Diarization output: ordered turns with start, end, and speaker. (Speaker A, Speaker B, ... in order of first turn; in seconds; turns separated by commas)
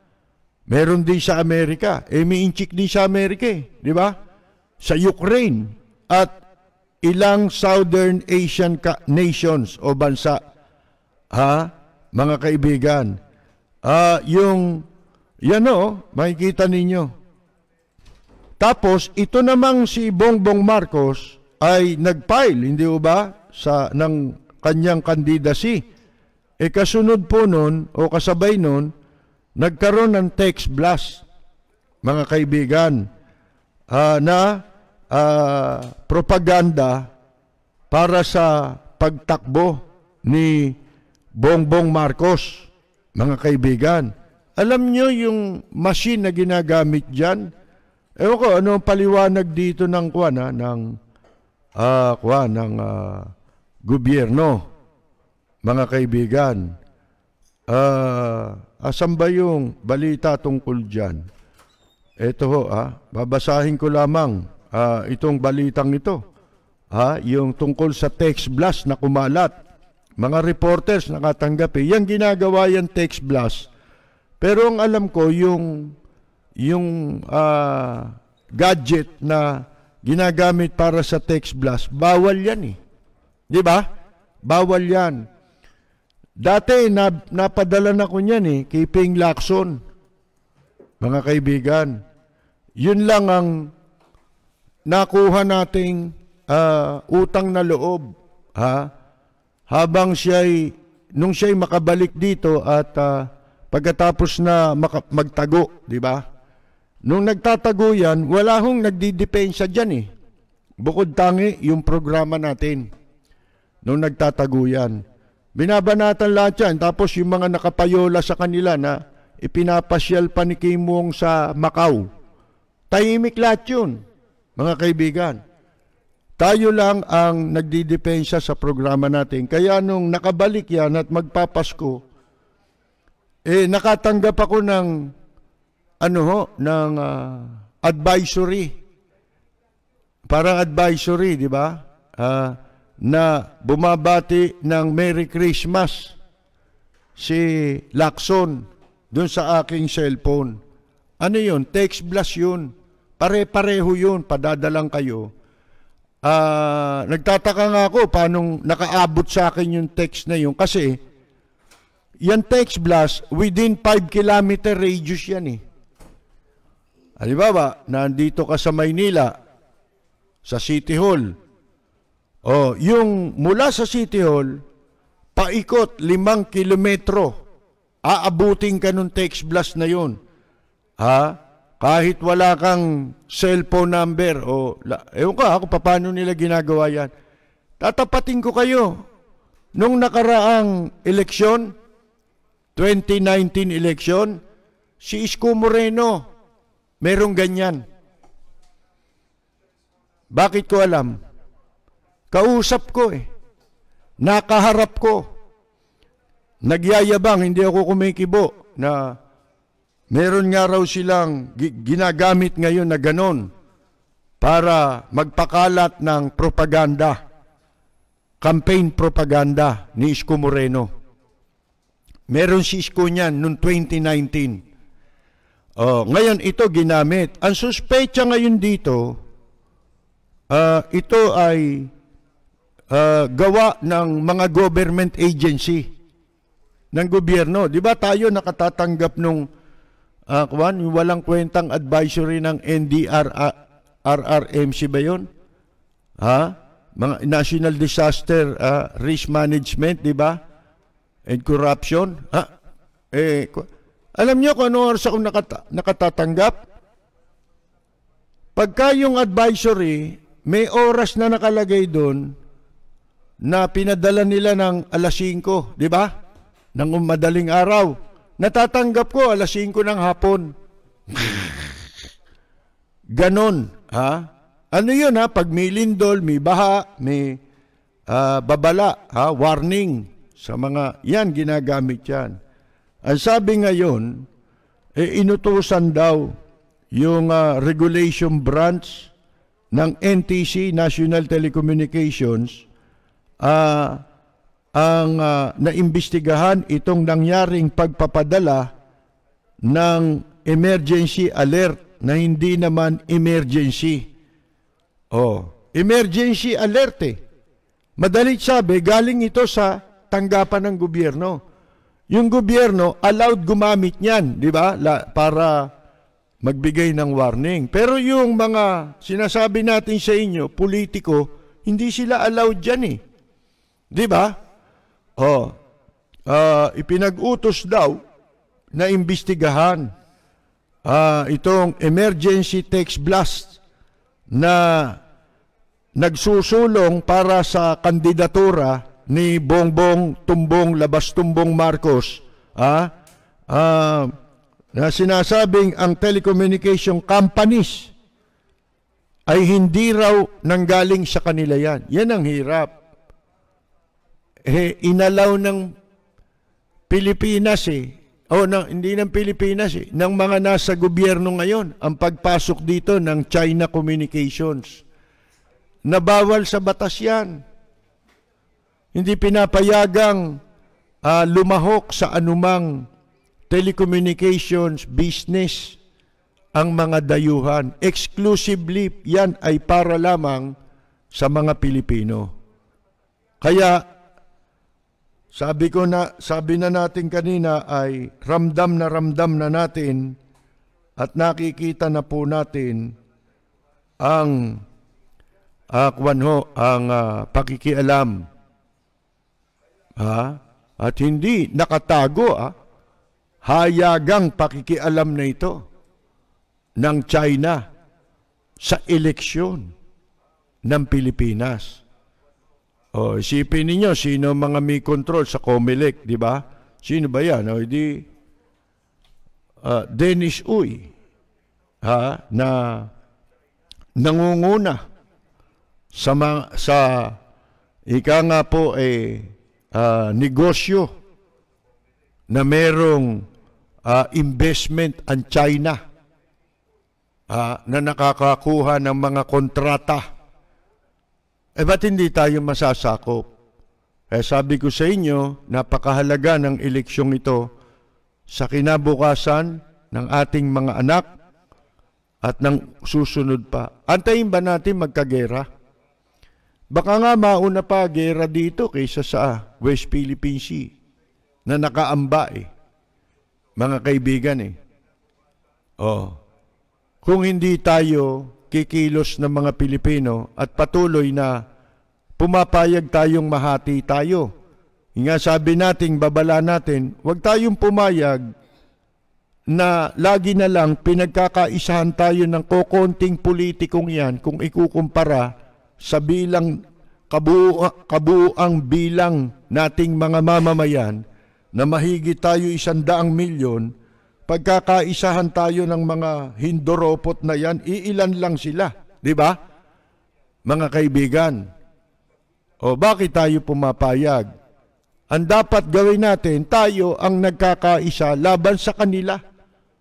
Speaker A: 0.7-4.1, Speaker A: 4.8-6.3, Speaker A: 7.0-10.4, Speaker A: 11.3-13.2, Speaker A: 13.8-14.8, Speaker A: 15.4-17.1, Speaker A: 18.6-25.8, Speaker A: 26.6-28.9, Speaker A: 29.6-31.2, Speaker A: 32.0-33.0, Speaker A: 33.9-34.5, Speaker A: 35.1-37.1, Speaker A: 37.9-40.8, Speaker A: 41.4-47.5, Speaker A: 48.2-50.8, Speaker A: 51.8-53.3, Speaker A: 53.9-54.6, Speaker A: 55.7-56.7, Speaker A: 57.7-61.2, Speaker A: 62.2-66.2, Speaker A: 67.0-69.5, Speaker A: 70.2-73.7, Speaker A: 74.4-75.9, Speaker A: 76.6-82.8, Speaker A: 83.5-83.8, Speaker A: 84.5-85.2, Speaker A: 86.4-89.8, Speaker A: 91.0-92.0, Speaker A: 92.8-93.6, Speaker A: 94.9-98.1, Speaker A: 98.6-98.9, Speaker A: 99.7-106.2, Speaker A: 107.0-110.1, Speaker A: 110.8-112.9, Speaker A: 113.8-115.0, Speaker A: 115.6-122.1, Speaker A: 122.9-124.0, Speaker A: 124.6-125.4, Speaker A: 126.4-132.0, Speaker A: 133.5-134.9, Speaker A: 136.0-138.7, Speaker A: 140.3-146.2, Speaker A: 147.2-150.6, Speaker A: 151.2-155.3, Speaker A: 156.2-161.0, Speaker A: 162.2-165.6, Speaker A: 167.2-169.3, Speaker A: 170.4-171.3, Speaker A: 172.5-174.6, Speaker A: 175.4-177.3, Speaker A: 178.1-180.2, Speaker A: 181.0-187.1, Speaker A: 187.8-188.9, Speaker A: 189.8-191.7, Speaker A: 192.8-194.4, Speaker A: 195.0-196.2, Speaker A: 197.0-197.8, Speaker A: 200.3-201.2, Speaker A: 202.3-203.2, Speaker A: 204.2-205.2, Speaker A: 206.6-209.1, Speaker A: 210.1-213.5, Speaker A: 214.4-217.2, Speaker A: 218.4-220.9, Speaker A: 222.3-224.6, Speaker A: 225.8-229.1, Speaker A: 230.5-231.9, Speaker A: 232.9-235.9, Speaker A: 236.9-239.4, Speaker A: 240.3-243.5, Speaker A: 244.1-245.3, Speaker A: 246.2-250.4, Speaker A: 251.3-252.5, Speaker A: 253.1-253.7, Speaker A: 254.2-256.6, Speaker A: 258.6-262.3, Speaker A: 263.4-266.1, Speaker A: 266.8-270.5, Speaker A: 271.1-271.4, Speaker A: 273.2-277.4, Speaker A: 278.1-282.3, Speaker A: 283.1-284.2, Speaker A: 285.0-286.3, Speaker A: 286.9-289.1, Speaker A: 289.7-292.6, Speaker A: 293.4-294.0, Speaker A: 294.8-298.7, Speaker A: 299.7-304.0, Speaker A: 305.1-307.2, Speaker A: 308.0-311.4, Speaker A: 312.1-315.7, Speaker A: 316.4-323.0, Speaker A: 323.9-324.3, Speaker A: 325.2-325.6, Speaker A: 326.3-328.0, Speaker A: 328.8-329.9, Speaker A: 330.9-333.6, Speaker A: 334.3-335.0, Speaker A: 336.0-342.9, Speaker A: 343.5-344.1, Speaker A: 344.8-347.9, Speaker A: 349.3-352.7, Speaker A: 354.5-355.7, Speaker A: 356.9-364.8, Speaker A: 365.9-367.4, Speaker A: 368.9-370.4, Speaker A: 371.1-372.8, Speaker A: 373.5-375.8, Speaker A: 376.6-380.5, Speaker A: 381.1-382.3, Speaker A: 383.4-383.8, Speaker A: 385.3-390.1, Speaker A: 391.0-392.9, Speaker A: 394.0-394.5, Speaker A: 395.8-398.2, Speaker A: 400.0-402.5, Speaker A: 403.4-405.6, Speaker A: 406.8-407.6, Speaker A: 408.6-409.7, Speaker A: 410.7-411.8, Speaker A: 412.9-418.0, Speaker A: 419.6-420.9, Speaker A: 421.8-422.9, Speaker A: 424.0-424.8, Speaker A: 426.0-427.1, Speaker A: 427.9-430.9, Speaker A: 432.3-433.2, Speaker A: 433.9-435.8, Speaker A: 437.3-440.1, Speaker A: 441.6-443.2, Speaker A: 444.1-447.4, Speaker A: 448.3-451.1, Speaker A: 452.2-455.5, Speaker A: 456.7-460.7, Speaker A: 461.5-462.5, Speaker A: 463.6-464.6, Speaker A: 465.8-466.2, Speaker A: 467.0-471.4, Speaker A: 472.2-474.3, Speaker A: 475.0-478.2, Speaker A: 479.5-485.3, Speaker A: 485.8-486.6, Speaker A: 487.1-491.0, Speaker A: 491.6-493.7, Speaker A: 494.3-499.4, Speaker A: 500.5-501.4, Speaker A: 502.6-504.3, Speaker A: 505.1-509.2